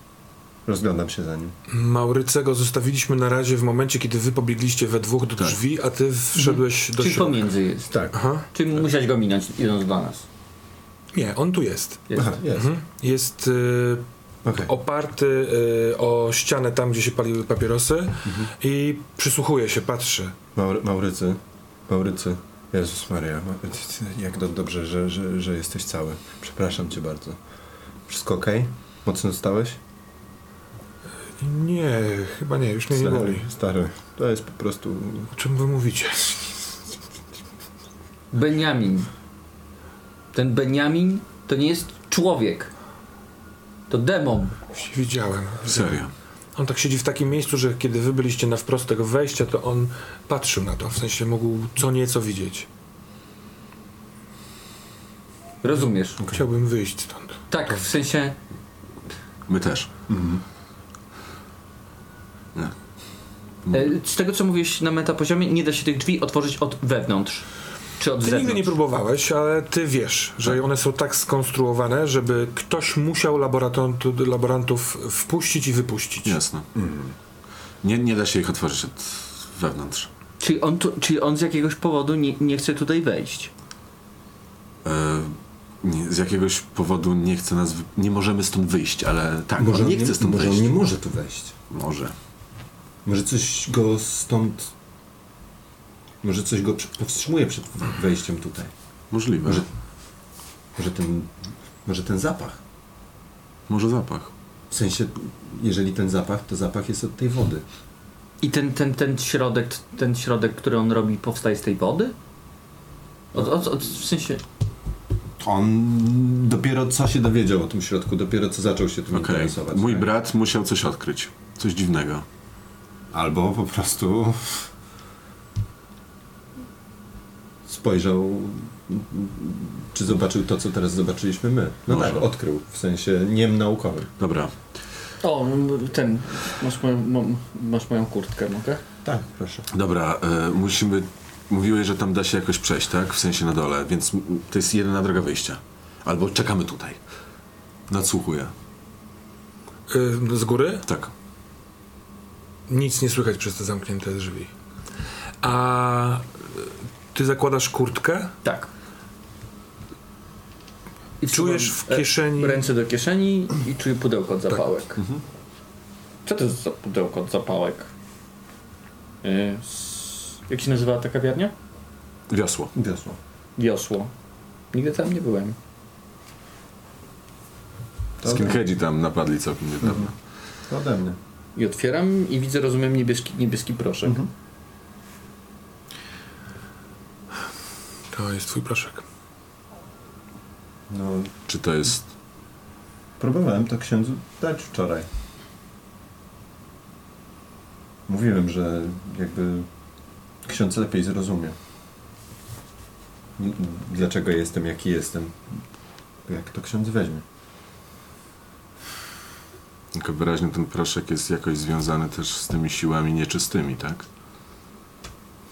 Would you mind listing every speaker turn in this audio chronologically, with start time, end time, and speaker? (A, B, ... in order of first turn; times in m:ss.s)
0:00.6-0:01.5 A
0:01.7-0:07.6 B
0:06.4-0:10.2 C
0:08.1-0:08.5 B
0:11.1-0:20.3 B
0:12.1-0:12.4 C
0:12.1-0:12.7 A
0:14.4-0:14.7 A
0:18.2-0:18.5 A
0:20.5-0:27.4 A
0:28.1-0:29.8 A
0:31.4-0:33.5 B
0:32.9-0:35.3 A
0:35.3-0:36.6 B
0:38.3-0:39.1 C
0:40.3-0:42.7 C
0:43.9-0:44.6 C
0:44.7-0:46.0 B
0:45.6-0:46.1 D
0:46.6-0:52.7 B
0:55.6-0:56.2 C
0:56.3-0:57.9 B
0:57.5-0:58.4 C
0:59.5-0:59.9 D
1:00.1-1:00.4 A
1:03.6-1:03.9 D
1:03.7-1:08.7 C
1:08.2-1:16.4 B
1:16.2-1:16.7 D
1:16.8-1:17.1 A
1:17.8-1:20.1 D
1:20.4-1:23.5 C
1:24.8-1:30.8 D
1:29.6-1:31.5 A
1:31.7-1:32.1 D
1:33.0-1:34.7 A
1:36.2-1:38.7 A
1:39.1-1:39.7 D
1:40.8-1:42.6 A
1:43.7-1:44.3 D
1:44.7-1:47.6 A
1:48.4-1:52.1 C
1:53.3-1:54.4 C
1:55.4-2:00.1 A
1:59.1-2:02.2 D
2:03.1-2:04.7 A
2:07.7-2:14.1 A
2:11.9-2:12.3 D
2:14.2-2:14.5 D
2:15.2-2:18.8 C
2:19.0-2:19.7 A
2:19.7-2:27.0 D
2:27.9-2:28.5 D
2:29.9-2:30.8 B
2:30.9-2:31.1 D
2:32.7-2:34.5 B
2:35.4-2:38.3 B
2:38.4-2:38.7 C
2:41.2-2:45.0 C
2:41.3-2:42.7 B
2:45.0-2:45.2 A
2:46.2-2:47.9 C
2:49.2-2:51.5 C
2:52.3-2:52.7 D
2:52.7-2:53.2 A
2:53.6-2:54.1 C
2:54.7-2:55.6 C
2:58.2-2:58.6 A
2:58.2-3:00.1 D
2:59.8-3:00.1 A
3:00.7-3:01.2 A
3:01.5-3:04.2 C
3:04.0-3:04.3 A
3:08.1-3:09.0 B
3:10.9-3:11.3 A
3:11.5-3:12.1 D
3:13.2-3:15.1 A
3:18.1-3:19.7 A
3:20.4-3:21.6 A
3:23.4-3:25.6 A
3:26.2-3:27.2 A
3:29.9-3:34.0 D